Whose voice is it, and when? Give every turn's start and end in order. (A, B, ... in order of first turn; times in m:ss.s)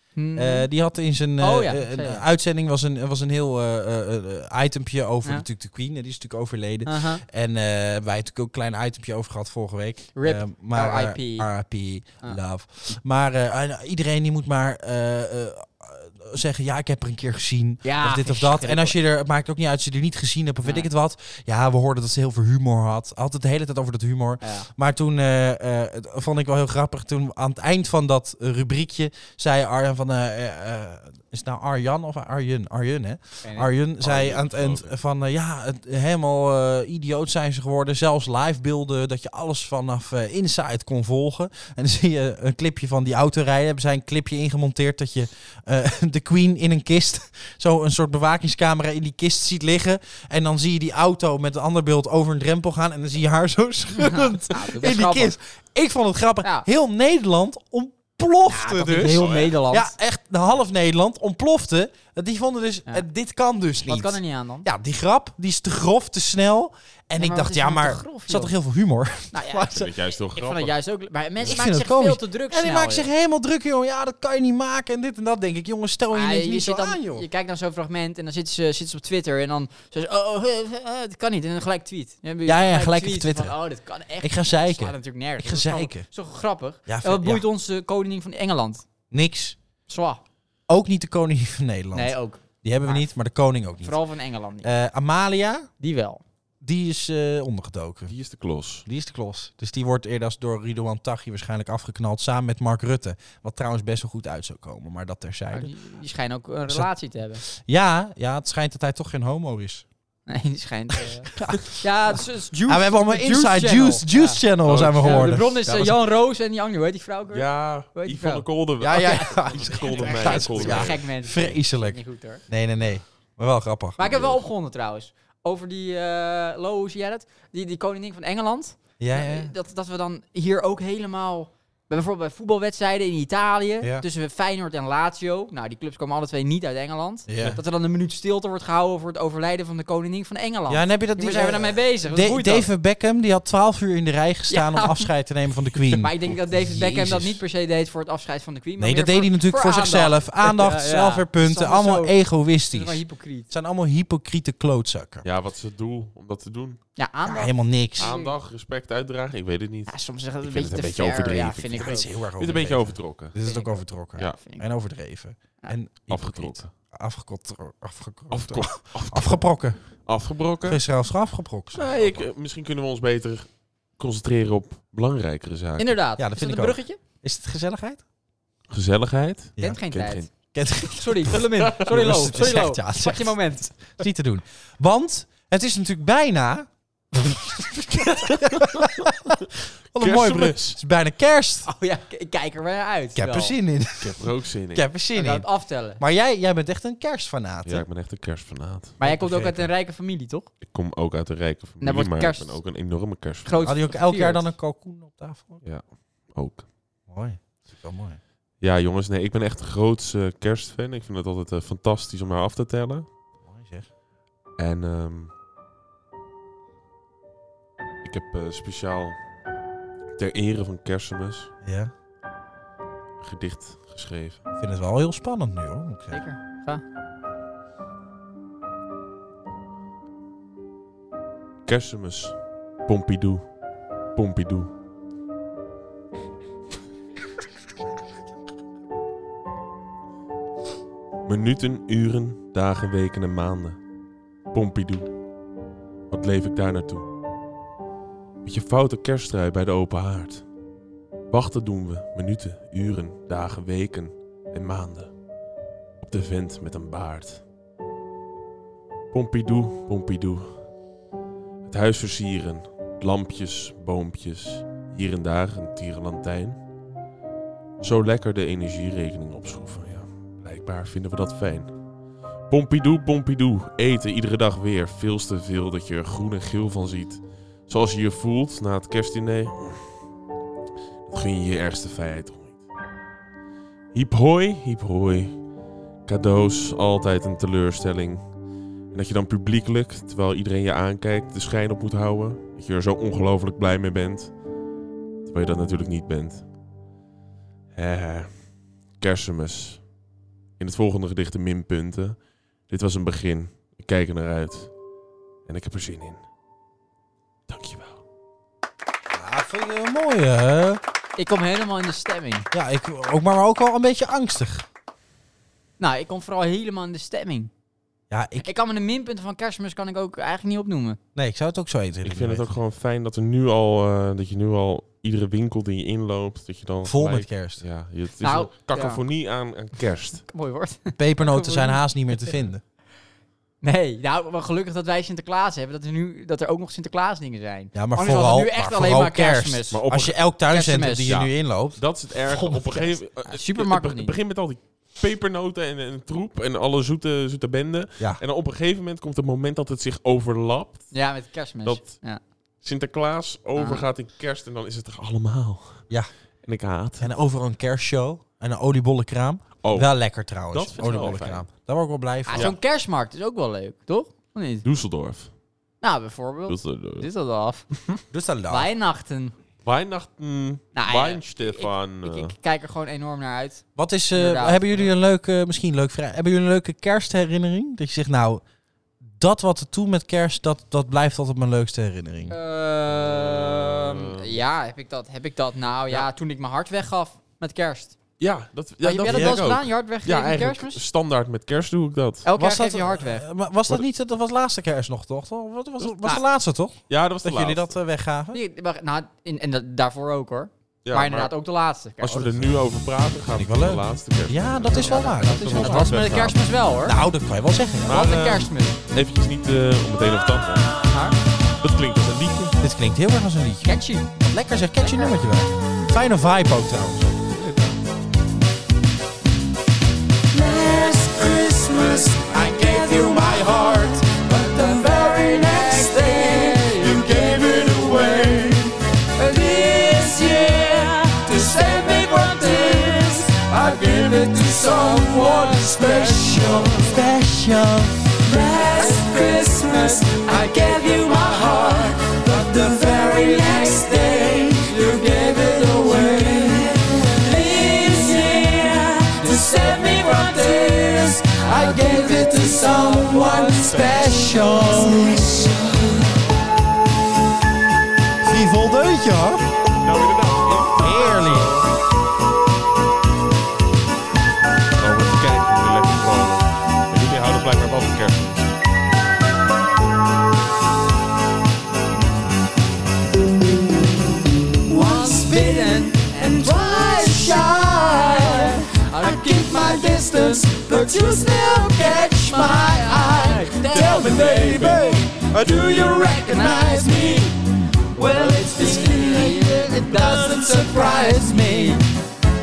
0:00.2-0:00.7 A
0:00.4-1:09.9 B
0:01.4-0:02.2 A
0:06.8-0:07.2 A
0:10.2-0:11.5 A
0:17.8-0:19.0 A
0:20.6-0:20.9 A
0:24.4-0:24.7 A
0:33.4-0:33.7 A
0:34.0-0:34.9 C
0:54.0-0:55.3 A
0:58.5-0:59.9 A
0:58.9-0:59.6 C
1:03.9-1:04.7 A
1:07.2-1:08.5 A
1:09.3-1:09.7 A
1:09.7-1:10.7 C
1:10.4-1:13.1 A
1:11.4-1:17.2 B
1:16.1-1:28.8 A
1:22.4-1:23.6 B
1:24.2-1:26.1 B
1:26.9-1:27.4 B
1:29.1-1:29.6 B
1:29.9-1:30.2 A
1:30.7-1:34.0 B
1:31.9-1:33.1 A
1:33.8-1:34.7 A
1:34.6-1:35.7 B
1:35.8-1:36.2 A
1:36.6-1:38.1 B
1:38.1-1:38.9 C
1:38.9-1:45.7 B
1:45.5-1:47.4 A
1:47.5-1:49.8 B
1:50.3-1:54.4 A
1:51.4-1:51.6 B
1:52.7-1:55.9 B
1:54.6-1:55.9 C
1:55.0-2:02.4 A
1:57.3-2:01.4 C
1:58.8-2:04.0 B
2:04.0-2:22.7 A
2:04.0-2:04.4 C
2:09.0-2:09.5 B
2:17.3-2:17.6 B
2:20.7-2:27.4 B
2:24.5-2:25.1 A
2:25.9-2:33.5 A
2:28.8-2:35.2 B
2:35.2-2:36.8 C
2:37.0-2:38.3 A
2:37.2-2:38.1 B
2:38.0-2:43.4 C
2:39.9-2:42.1 A
2:41.8-2:49.8 B
2:43.4-2:44.6 A
2:46.1-2:46.7 C
2:48.3-2:50.8 C
2:50.6-2:52.3 B
2:51.8-2:56.0 C
2:55.8-2:57.0 A
2:56.2-2:58.0 B
2:58.7-3:00.3 C
2:59.6-3:00.3 A
3:00.4-3:11.7 B
3:00.8-3:03.9 A
3:08.0-3:09.1 C
3:10.0-3:10.8 C
3:11.7-3:13.6 A
3:13.2-3:17.9 B
3:14.0-3:14.8 C
3:15.1-3:16.0 A
3:17.6-3:19.0 C
3:19.0-3:20.5 A
3:19.0-3:19.7 B
3:20.6-3:23.5 C
3:21.8-3:22.6 A
3:23.4-3:24.5 A
3:23.6-3:25.6 B
3:25.6-3:26.7 C
3:27.1-3:28.2 B
3:28.6-3:33.1 C
3:33.5-3:33.9 B
3:34.6-3:35.3 C
3:38.0-3:39.2 C
3:40.2-3:41.5 C
3:41.6-3:41.9 B
3:43.2-3:44.4 C
3:44.6-3:46.2 B
3:46.1-3:46.8 A
3:51.7-3:53.4 C
3:54.2-3:54.7 C
4:01.3-4:03.8 C
4:04.5-4:05.1 C
4:06.1-4:07.1 C
4:08.4-4:10.4 C
4:11.3-4:15.1 C
4:16.0-4:17.4 C
4:19.1-4:20.6 C
4:21.7-4:26.6 C
4:27.8-4:31.7 C
4:32.5-4:39.9 C
4:41.1-4:42.6 C
4:43.9-4:45.4 C
4:46.1-4:48.2 C
4:48.9-4:54.3 C
4:55.3-4:56.4 C
4:57.7-4:58.4 C
4:59.0-4:59.8 C
5:00.6-5:04.7 C
5:05.5-5:06.2 C
5:07.5-5:08.0 C
5:09.1-5:10.8 B
5:11.2-5:12.5 A
5:12.5-5:14.6 B
5:15.8-5:17.5 A
5:18.1-5:18.5 B
5:18.4-5:21.0 A
5:21.2-5:22.6 B
5:22.0-5:30.2 C
5:26.8-5:27.6 B
5:28.2-5:29.0 A
5:30.3-5:32.3 A
5:31.0-5:32.6 B
5:33.6-5:39.8 A
5:37.7-5:41.8 B
5:39.7-5:40.2 C
5:40.5-5:41.2 A
5:41.1-5:50.9 C
5:42.3-5:44.2 A
5:50.9-5:52.2 A
5:51.6-5:52.0 C
5:52.6-5:55.9 C
5:53.6-5:53.9 A
5:56.4-5:57.1 C
5:57.0-6:02.6 B
5:59.6-5:59.9 C
6:00.5-6:01.5 C
6:02.3-6:04.6 A
6:04.6-6:05.3 C
6:05.8-6:07.7 A
6:06.5-6:07.1 C
6:08.1-6:08.7 B
6:08.5-6:09.4 A
6:09.6-6:12.3 C
6:10.7-6:14.8 A
6:13.8-6:18.4 B
6:19.2-6:22.4 B
6:22.3-6:28.0 A
6:23.0-6:24.3 C
6:28.2-6:32.3 C
6:28.8-6:30.8 A
6:29.1-6:29.4 B
6:32.2-6:33.3 A
6:32.4-6:38.4 B
6:36.9-6:37.8 C
6:38.3-6:42.3 A
6:40.8-6:41.3 C
6:42.0-6:46.4 C
6:43.3-6:48.1 B
6:44.7-6:47.0 A
6:47.9-6:50.8 C
6:47.9-6:48.8 A
6:50.9-6:51.2 A
6:51.6-6:52.6 C
6:52.6-6:57.1 B
6:53.6-6:54.1 A
6:54.9-6:55.1 A
6:57.4-6:57.7 C
7:00.3-7:17.0 D
7:16.8-7:18.1 B
7:18.2-7:35.7 D
7:38.2-7:39.5 B
7:39.8-7:41.7 C
7:40.8-7:41.6 B
7:44.8-7:48.5 C
7:54.7-8:07.3 D
7:54.8-7:57.4 A
7:58.1-8:00.0 A
8:02.3-8:04.8 A
8:04.0-8:05.0 B
8:04.0-8:04.8 C
8:06.2-8:07.2 A
8:08.0-8:11.7 D
8:08.0-8:11.8 A